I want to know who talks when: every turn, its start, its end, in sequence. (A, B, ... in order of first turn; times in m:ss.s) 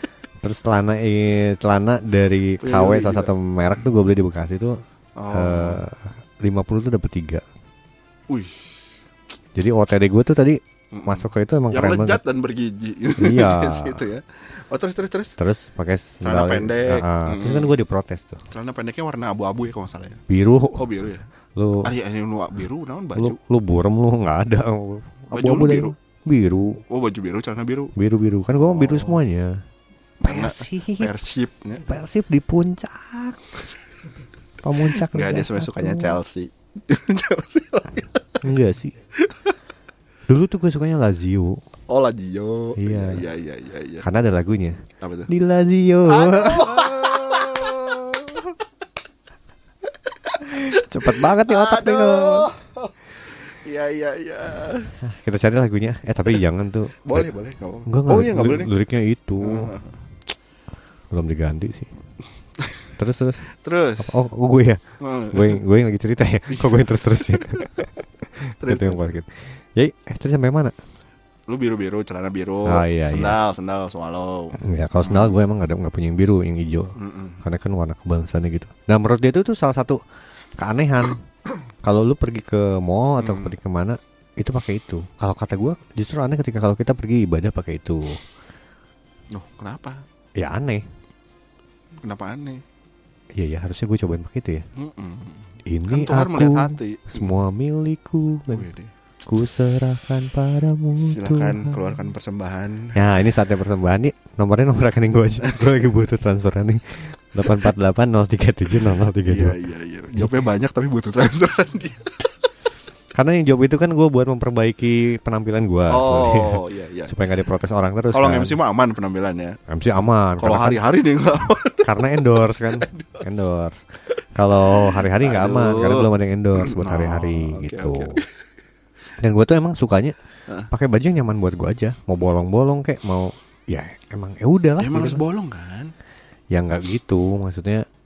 0:00.4-0:04.8 A
0:02.6-0:03.3 B
0:05.2-0:05.8 B
0:05.3-0:07.4 A
0:08.3-0:08.6 B
0:09.5-0:12.2 A
0:10.9-0:15.4 B
0:13.2-0:14.0 A
0:15.4-0:18.4 A
0:16.2-0:17.8 B
0:18.5-0:20.2 B
0:20.3-0:20.9 A
0:20.8-0:21.2 B
0:21.6-0:21.9 A
0:21.8-0:23.4 B
0:23.2-0:26.8 A
0:25.3-0:25.9 B
0:26.9-0:27.9 B
0:28.0-0:29.6 A
0:28.6-0:29.2 B
0:30.2-0:31.8 B
0:30.2-0:31.1 A
0:31.8-0:33.4 A
0:34.6-0:36.2 A
0:35.0-0:38.4 B
0:38.4-0:39.0 A
0:40.3-0:41.6 A
0:41.9-0:44.0 B
0:42.8-0:43.2 A
0:44.0-0:47.2 A
0:45.0-0:45.3 B
0:46.1-0:48.5 B
0:50.3-0:52.9 B
0:50.7-0:52.5 A
0:53.6-0:54.9 B
0:55.0-0:57.3 A
0:57.0-0:58.7 B
0:57.8-0:59.7 A
0:59.4-0:59.9 B
1:01.1-1:01.9 A
1:03.0-1:03.4 A
1:03.6-1:04.1 B
1:04.0-1:04.8 A
1:05.0-1:05.6 B
1:05.3-1:07.7 A
1:06.5-1:07.6 B
1:08.6-1:09.0 B
1:08.6-1:10.7 A
1:11.5-1:15.4 B
1:12.6-1:13.4 A
1:14.6-1:20.0 A
1:17.0-1:17.4 B
1:20.6-1:21.2 A
1:21.8-1:28.2 A
1:23.2-1:23.5 B
1:29.3-1:30.0 B
1:30.4-1:30.8 A
1:32.0-1:32.6 B
1:33.4-1:34.6 A
1:34.8-1:37.3 B
1:35.7-1:38.7 A
1:38.5-1:38.9 B
1:39.3-1:41.8 A
1:41.0-1:43.0 B
1:42.9-1:49.6 A
1:49.2-1:52.1 B
1:53.1-1:58.6 A
1:55.9-1:57.1 B
1:58.1-1:59.6 B
1:59.7-2:00.8 A
2:00.4-2:01.9 B
2:01.8-2:03.8 A
2:02.9-2:03.3 B
2:04.3-2:08.2 A
2:04.7-2:08.3 B
2:09.2-2:10.1 A
2:10.7-2:15.2 A
2:14.8-2:15.9 B
2:16.5-2:17.8 A